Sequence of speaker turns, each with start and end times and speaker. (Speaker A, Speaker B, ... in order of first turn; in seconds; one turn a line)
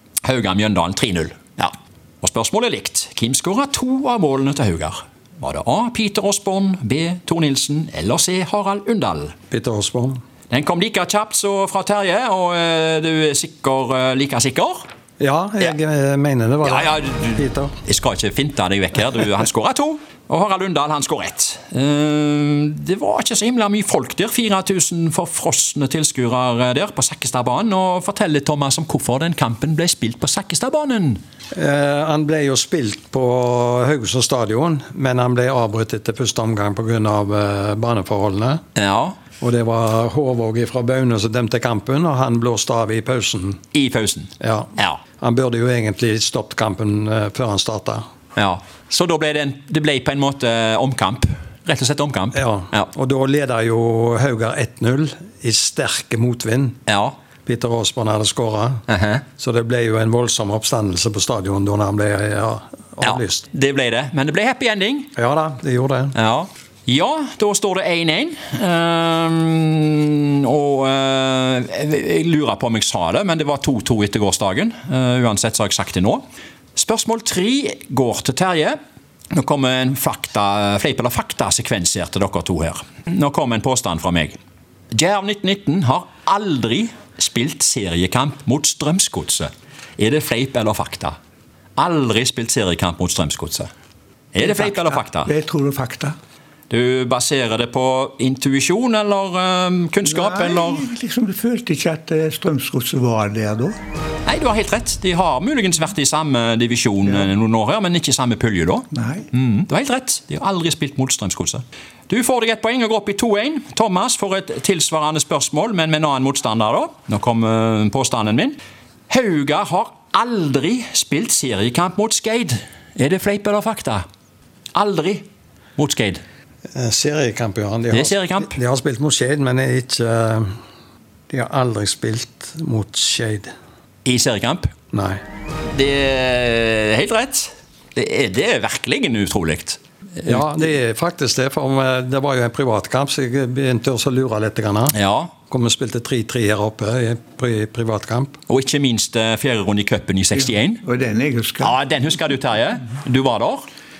Speaker A: 0.2-9.3
Speaker B: 9.5-10.2
Speaker A: 10.5-14.8
Speaker B: 15.2-17.7
Speaker A: 16.6-31.2
Speaker B: 31.5-38.6
Speaker A: 38.7-39.2
Speaker B: 39.4-43.6
Speaker A: 43.7-45.0
Speaker B: 44.4-48.0
Speaker A: 48.4-52.9
Speaker B: 52.3-56.8
Speaker A: 56.9-57.1
Speaker B: 57.4-58.8
Speaker A: 58.9-59.2
Speaker B: 59.4-63.5
Speaker A: 63.0-65.1
Speaker B: 65.1-66.1
Speaker A: 66.1-76.2
Speaker A: 76.7-78.8
Speaker A: 79.3-84.4
Speaker A: 84.9-91.1
Speaker A: 91.8-93.7
Speaker A: 94.3-95.3
Speaker C: 94.4-96.2
Speaker A: 96.7-100.9
Speaker C: 100.0-103.8
Speaker A: 104.2-118.5
Speaker C: 108.9-109.3
Speaker A: 119.1-124.0
Speaker A: 124.7-125.2
Speaker A: 125.8-126.2
Speaker B: 126.7-130.5
Speaker A: 127.9-128.6
Speaker B: 131.3-133.5
Speaker A: 134.0-134.7
Speaker B: 134.9-135.2
Speaker A: 135.6-140.5
Speaker B: 140.2-144.9
Speaker A: 144.9-145.3
Speaker B: 145.5-148.3
Speaker A: 148.5-150.8
Speaker C: 150.4-151.8
Speaker A: 151.6-153.7